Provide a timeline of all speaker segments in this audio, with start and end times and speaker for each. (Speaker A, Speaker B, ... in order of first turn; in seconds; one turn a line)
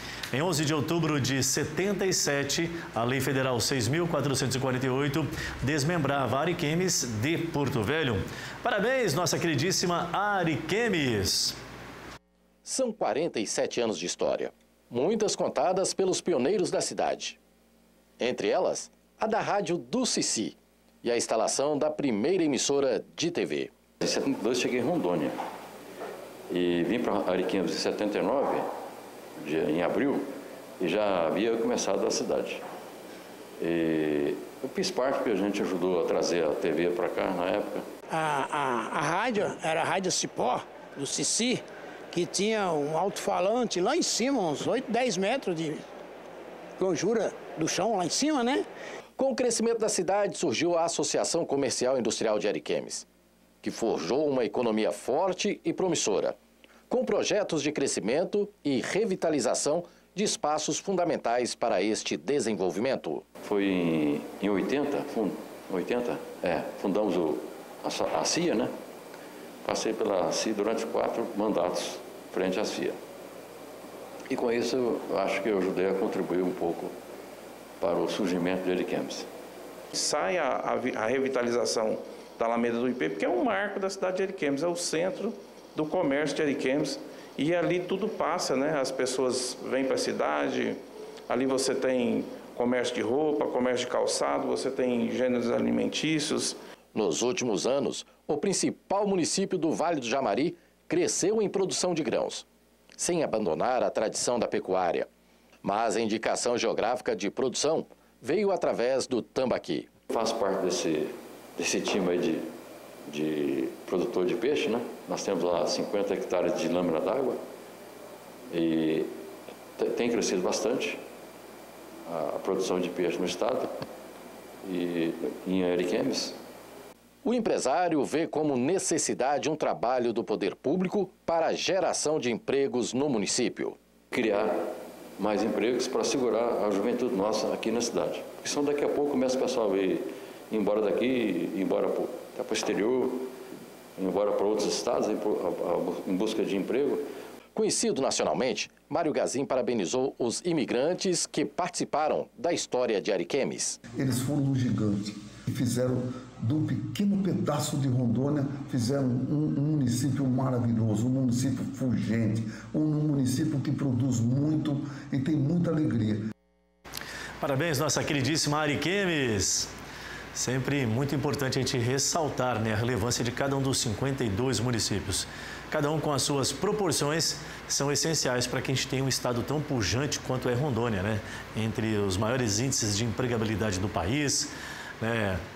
Speaker A: 0.3-11.6
Speaker B: 12.7-17.4
Speaker B: 18.2-23.7
Speaker C: 24.0-25.4
Speaker C: 26.5-28.7
Speaker C: 29.4-30.3
Speaker C: 30.8-32.6
Speaker C: 33.6-37.9
Speaker D: 38.1-45.8
Speaker D: 46.8-48.7
Speaker B: 49.2-53.1
Speaker B: 53.6-56.4
Speaker B: 56.9-63.2
Speaker C: 63.4-68.7
Speaker C: 69.6-73.0
Speaker C: 74.3-76.9
Speaker C: 77.8-79.3
Speaker E: 79.9-90.8
Speaker E: 91.3-96.6
Speaker B: 96.9-102.5
Speaker B: 103.0-105.1
Speaker B: 105.6-109.9
Speaker C: 110.1-112.5
Speaker C: 113.1-117.4
Speaker C: 118.5-119.1
Speaker C: 119.8-121.0
Speaker C: 122.1-123.7
Speaker C: 124.6-126.4
Speaker B: 127.2-133.8
Speaker C: 134.1-143.3
Speaker C: 144.0-147.0
Speaker B: 147.6-153.8
Speaker F: 153.9-166.2
Speaker A: 167.4-169.7
Speaker A: 170.3-185.4